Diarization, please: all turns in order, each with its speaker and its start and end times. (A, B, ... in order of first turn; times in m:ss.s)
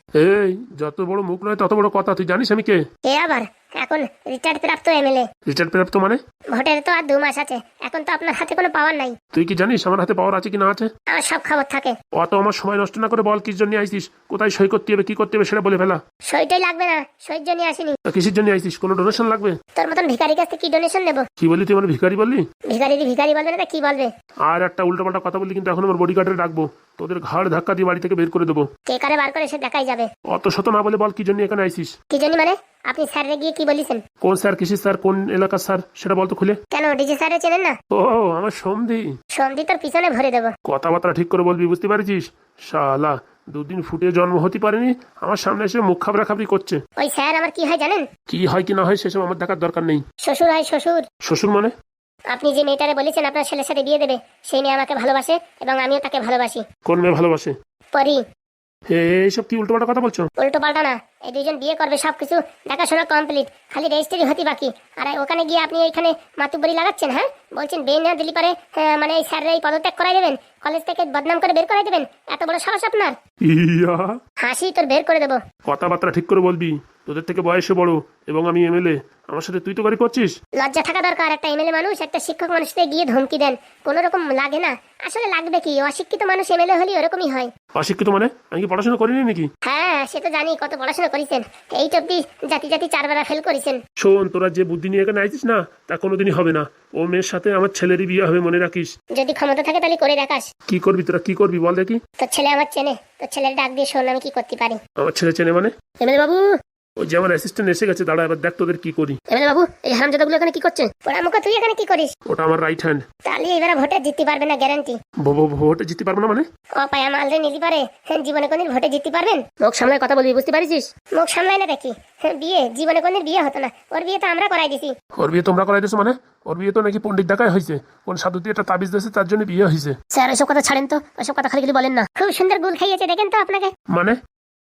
0:00.2-0:02.8 A
0:03.1-0:05.3 B
0:05.5-0:06.2 A
0:06.5-0:09.2 B
0:09.3-0:10.9 A
0:11.1-0:12.0 B
0:12.1-0:16.0 A
0:16.3-0:17.9 B
0:18.1-0:19.6 A
0:19.8-0:21.2 B
0:21.4-0:22.4 A
0:22.7-0:24.1 B
0:24.5-0:28.7 A
0:28.9-0:30.1 B
0:30.3-0:31.9 A
0:32.1-0:34.0 B
0:34.2-0:36.6 A
0:36.7-0:37.7 B
0:37.9-0:39.1 A
0:39.3-0:40.5 B
0:40.6-0:46.8 A
0:47.0-0:48.0 B
0:48.3-0:50.0 A
0:50.2-0:51.0 B
0:51.2-0:51.7 A
0:52.3-0:56.6 B
0:56.8-0:57.5 A
0:57.9-0:58.2 B
0:58.9-1:00.3 A
1:00.4-1:13.1 B
1:13.4-1:14.1 A
1:14.4-1:15.4 B
1:15.6-1:20.4 A
1:20.6-1:27.5 B
1:27.8-1:29.5 A
1:29.6-1:33.8 B
1:34.0-1:38.9 A
1:39.1-1:40.5 B
1:40.7-1:42.0 A
1:42.2-1:44.8 B
1:45.0-1:45.7 A
1:46.0-1:46.5 B
1:47.0-1:49.2 A
1:49.3-1:52.1 B
1:52.3-1:53.0 A
1:53.2-1:55.0 B
1:55.2-1:56.4 A
1:56.8-2:04.9 B
2:05.2-2:10.0 A
2:10.1-2:13.7 B
2:13.9-2:14.2 A